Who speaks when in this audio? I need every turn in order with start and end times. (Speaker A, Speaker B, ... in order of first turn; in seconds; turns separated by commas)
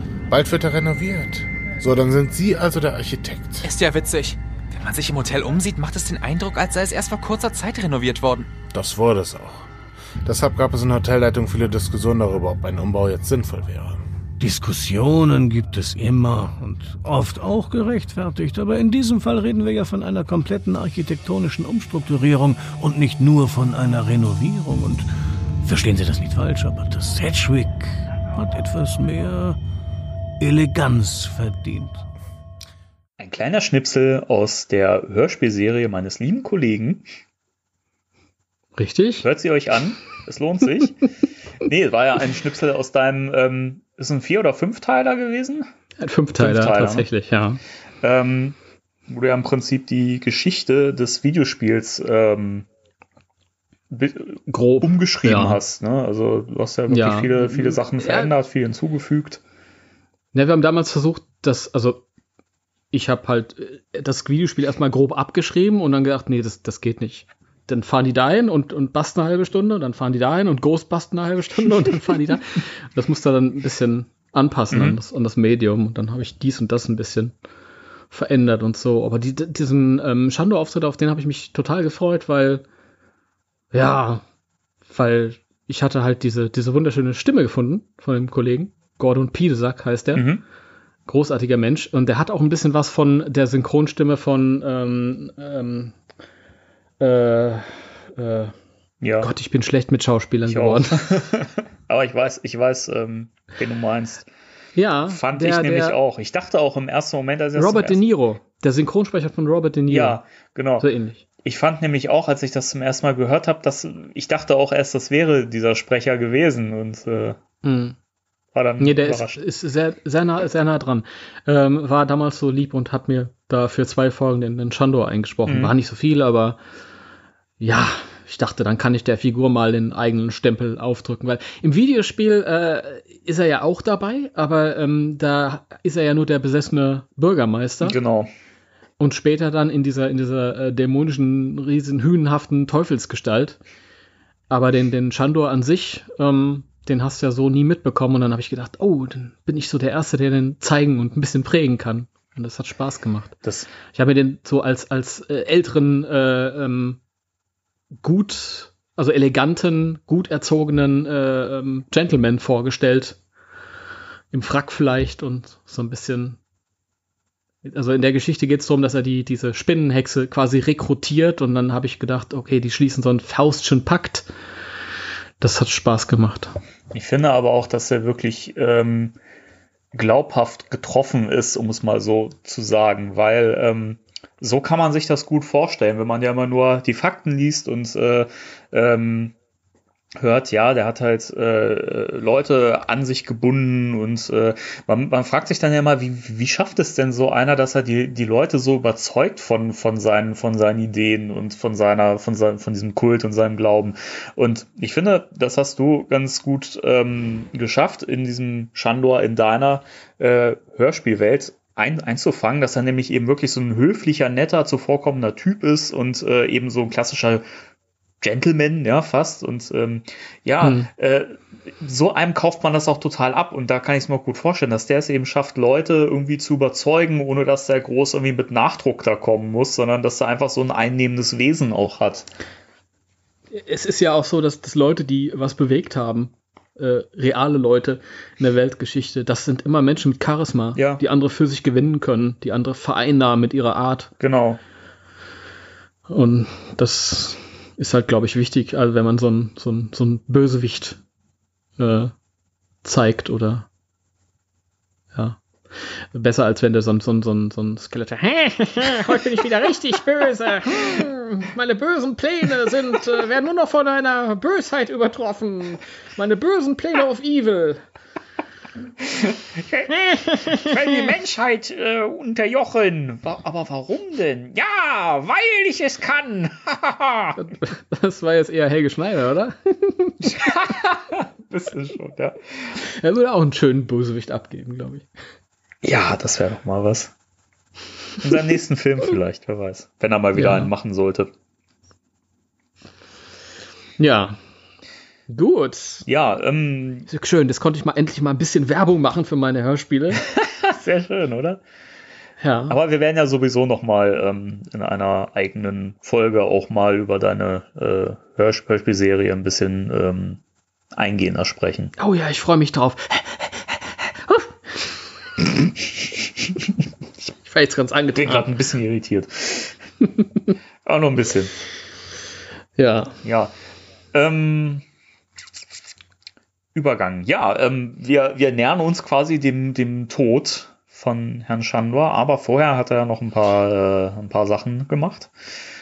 Speaker A: 0.3-3.7, Speaker B: 3.6-8.5, Speaker A: 8.7-9.7, Speaker A: 10.2-14.1, Speaker C: 14.4-25.1, Speaker C: 25.6-29.6, Speaker C: 30.4-32.0, Speaker D: 33.2-37.0, Speaker E: 38.8-39.3, Speaker D: 39.2-41.0, Speaker D: 41.6-45.7, Speaker E: 46.0-47.6, Speaker D: 46.4-47.1, Speaker D: 48.0-48.6, Speaker D: 49.1-52.7, Speaker D: 53.9-59.4, Speaker E: 54.5-55.6, Speaker E: 56.9-58.3, Speaker E: 60.3-62.0, Speaker E: 62.9-77.3, Speaker D: 74.7-75.0, Speaker E: 78.1-82.6, Speaker E: 83.7-84.2, Speaker E: 84.9-90.3, Speaker D: 90.1-90.4, Speaker E: 91.1-96.0, Speaker E: 97.0-98.5, Speaker D: 99.0-99.3, Speaker E: 99.2-101.0, Speaker D: 100.5-104.3, Speaker E: 104.8-106.0, Speaker D: 105.1-108.0, Speaker E: 107.6-110.2, Speaker D: 109.9-110.9, Speaker E: 110.8-111.2, Speaker D: 111.4-117.4, Speaker E: 117.6-118.0, Speaker D: 118.5-119.4, Speaker E: 118.8-126.6, Speaker D: 125.5-125.7, Speaker E: 127.6-138.0, Speaker D: 137.8-138.3, Speaker E: 139.0-143.6, Speaker E: 144.5-153.3, Speaker D: 153.4-153.7, Speaker E: 153.9-157.0, Speaker E: 158.0-163.2, Speaker E: 164.3-166.4, Speaker E: 167.7-174.3, Speaker E: 175.4-176.5, Speaker D: 176.9-179.2, Speaker D: 179.9-189.3, Speaker D: 190.2-217.4, Speaker D: 218.2-232.3, Speaker E: 220.6-220.9, Speaker E: 233.5-244.1, Speaker D: 240.8-241.0, Speaker D: 244.2-244.6, Speaker E: 246.1-251.0, Speaker E: 251.8-252.1, Speaker E: 252.8-253.7, Speaker E: 255.1-255.4, Speaker E: 256.1-267.8, Speaker D: 269.0-277.4, Speaker E: 277.4-280.3, Speaker D: 280.4-282.8, Speaker E: 282.9-285.1, Speaker D: 285.8-287.1, Speaker D: 288.2-291.3, Speaker E: 290.4-290.7, Speaker E: 294.0-294.4, Speaker E: 295.3-296.1, Speaker D: 296.1-297.1, Speaker E: 297.1-300.2, Speaker D: 300.4-301.6, Speaker E: 302.4-302.8, Speaker D: 302.7-310.4, Speaker D: 310.9-311.9, Speaker E: 312.0-313.5, Speaker E: 317.4-318.5, Speaker D: 318.2-319.8, Speaker D: 320.9-321.5, Speaker E: 322.8-323.1, Speaker D: 323.2-323.5, Speaker D: 324.1-324.8, Speaker D: 326.7-335.3